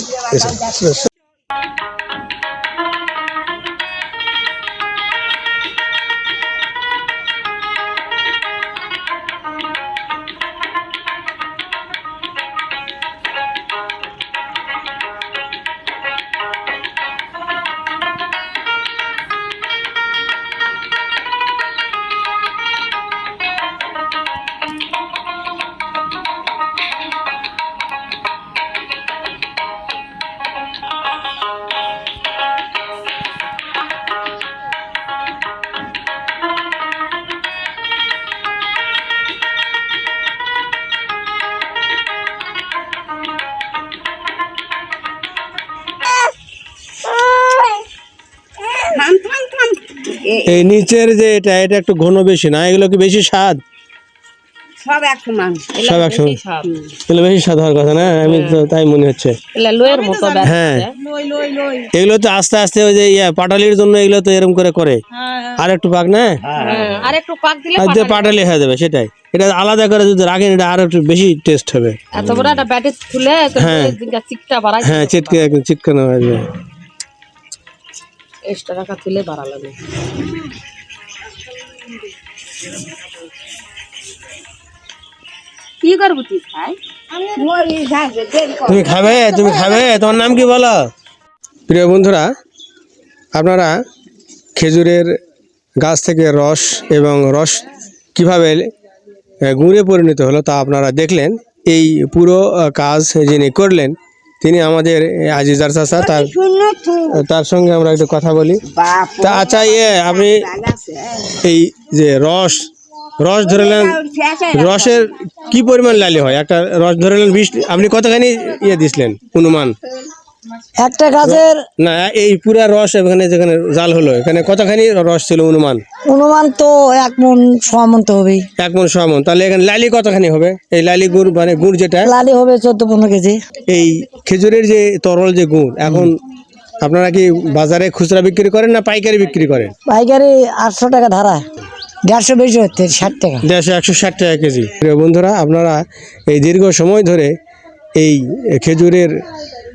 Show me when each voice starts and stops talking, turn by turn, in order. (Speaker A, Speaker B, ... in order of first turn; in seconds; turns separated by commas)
Speaker A: 0.2-1.1, Speaker B: 47.0-47.8, Speaker B: 48.6-50.6, Speaker A: 50.5-53.6, Speaker B: 54.8-55.8, Speaker A: 55.8-56.4, Speaker C: 55.8-56.7, Speaker B: 56.6-56.9, Speaker A: 57.0-59.4, Speaker C: 58.3-58.6, Speaker C: 59.5-60.9, Speaker A: 60.4-60.9, Speaker B: 61.3-61.8, Speaker A: 61.9-65.0, Speaker A: 65.5-66.6, Speaker C: 66.6-68.4, Speaker A: 67.8-72.6, Speaker C: 72.2-75.4, Speaker A: 73.5-74.0, Speaker A: 74.8-76.5, Speaker C: 78.5-79.8, Speaker B: 85.8-86.6, Speaker C: 85.9-86.8, Speaker B: 87.1-89.8, Speaker A: 88.7-90.8, Speaker A: 91.7-92.3, Speaker A: 93.3-93.7, Speaker A: 94.5-95.1, Speaker A: 95.8-98.7, Speaker A: 99.4-106.3, Speaker B: 106.0-107.2, Speaker A: 107.1-108.6, Speaker B: 108.7-111.3, Speaker A: 109.2-110.5, Speaker A: 111.4-114.0, Speaker B: 113.4-115.1, Speaker A: 114.5-119.8, Speaker D: 120.7-121.6, Speaker A: 121.2-125.8, Speaker D: 126.1-128.4, Speaker A: 128.6-132.1, Speaker D: 132.0-133.4, Speaker A: 133.7-136.2, Speaker A: 136.8-139.7, Speaker D: 139.9-141.4, Speaker D: 142.1-143.4, Speaker A: 143.4-147.3, Speaker A: 147.9-149.2